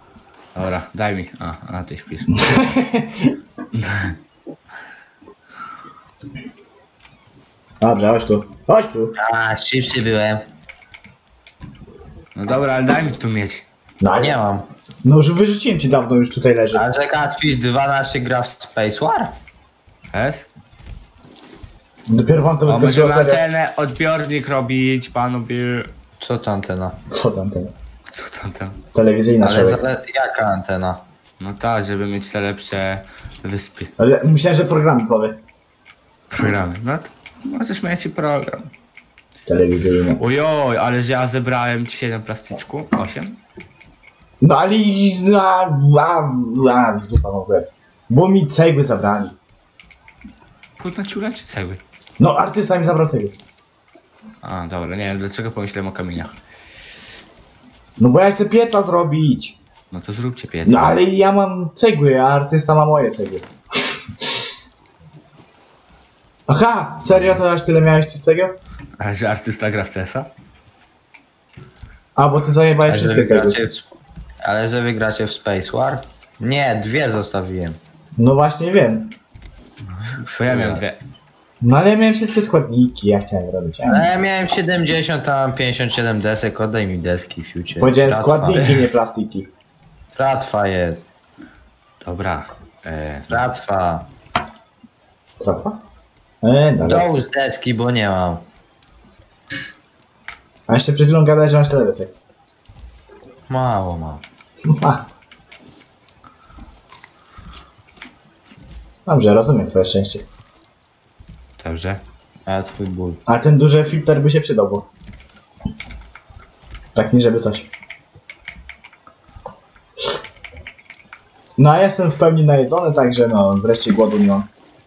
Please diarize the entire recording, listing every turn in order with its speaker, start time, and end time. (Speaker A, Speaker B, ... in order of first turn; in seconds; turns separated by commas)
Speaker A: 0.5-2.4, Speaker B: 2.4-3.3, Speaker A: 3.7-4.2, Speaker B: 7.8-9.1, Speaker C: 9.2-10.4, Speaker A: 12.3-13.7, Speaker B: 14.0-14.4, Speaker C: 14.2-14.7, Speaker B: 15.0-16.8, Speaker C: 16.7-19.3, Speaker A: 20.1-20.5, Speaker B: 22.1-23.4, Speaker A: 22.7-25.9, Speaker C: 26.2-27.0, Speaker B: 27.1-27.7, Speaker A: 28.1-28.8, Speaker B: 28.9-29.8, Speaker C: 29.4-31.0, Speaker A: 31.4-33.9, Speaker B: 34.0-35.4, Speaker A: 36.3-38.7, Speaker B: 39.5-40.2, Speaker A: 40.2-43.4, Speaker B: 44.4-49.4, Speaker A: 50.8-51.8, Speaker B: 52.2-53.3, Speaker A: 54.4-56.3, Speaker B: 58.0-59.6, Speaker A: 59.9-61.0, Speaker B: 60.6-64.5, Speaker B: 66.5-68.5, Speaker A: 69.0-70.3, Speaker B: 72.2-73.6, Speaker C: 72.8-73.9, Speaker C: 74.4-77.8, Speaker B: 78.2-79.1, Speaker A: 79.9-81.0, Speaker C: 80.5-80.8, Speaker B: 81.6-84.1, Speaker C: 83.9-88.6, Speaker B: 87.8-89.5, Speaker C: 90.1-91.0, Speaker A: 92.0-93.4, Speaker C: 93.3-94.1, Speaker B: 95.4-95.8, Speaker B: 96.4-97.1, Speaker C: 96.8-98.4, Speaker B: 100.7-102.1, Speaker C: 103.5-104.2, Speaker B: 104.7-105.0, Speaker B: 109.0-110.2, Speaker A: 111.6-112.0, Speaker C: 112.5-113.2, Speaker B: 113.2-114.8, Speaker B: 116.9-117.7, Speaker B: 121.6-124.5